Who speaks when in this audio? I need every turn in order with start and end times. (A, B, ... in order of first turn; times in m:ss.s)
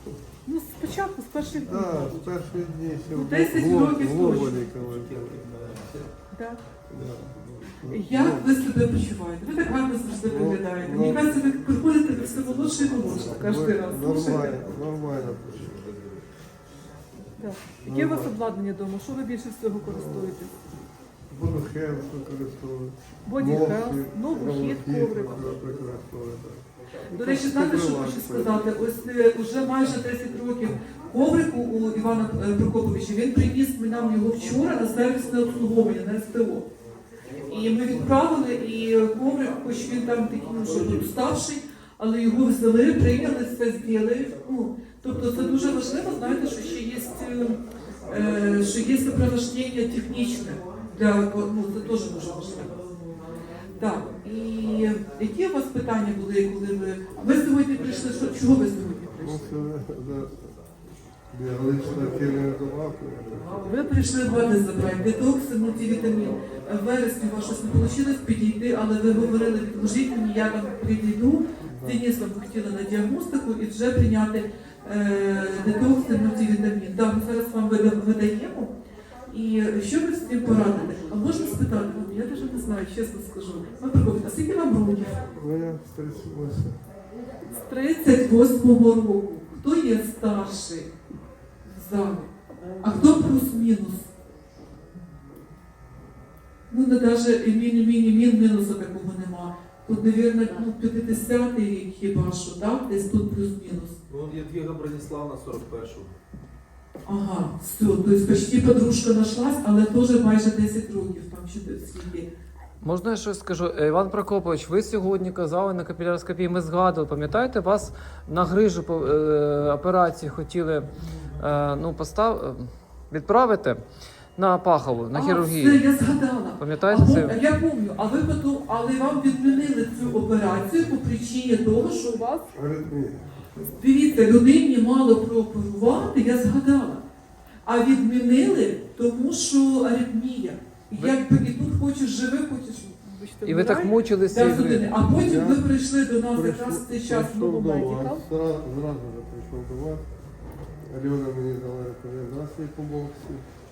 0:00.5-0:02.3 A
0:01.6-0:05.5 B
0:03.1-0:04.6 A
0:04.8-0:06.1 C
0:06.3-0:06.6 A
0:06.9-0:08.5 B
0:07.9-0:14.6 A
0:10.3-0:11.4 B
0:13.1-0:15.8 B
0:15.6-0:16.2 C
0:17.4-0:20.5 A
0:17.8-0:18.3 B
0:19.8-0:20.4 B
0:21.3-0:28.6 B
0:23.3-0:25.5 A
0:27.1-0:36.7 A
0:37.5-0:52.7 A
0:53.8-0:59.5 A
0:59.2-1:00.6 B
1:01.3-1:03.5 B
1:03.7-1:18.7 A
1:11.6-1:12.0 B
1:19.3-1:25.2 A
1:25.3-1:26.8 B
1:27.5-1:30.9 A
1:31.7-1:32.3 A
1:32.8-1:34.1 A
1:36.7-1:44.0 A
1:44.1-1:46.2 C
1:47.0-1:52.3 A
1:52.8-2:03.8 D
2:04.4-2:05.8 D
2:05.1-2:12.5 A
2:06.6-2:07.4 D
2:12.5-2:13.5 B
2:13.6-2:17.0 A
2:17.6-2:28.2 A
2:23.5-2:25.0 D
2:25.0-2:25.7 B
2:26.3-2:30.1 B
2:30.8-2:33.5 B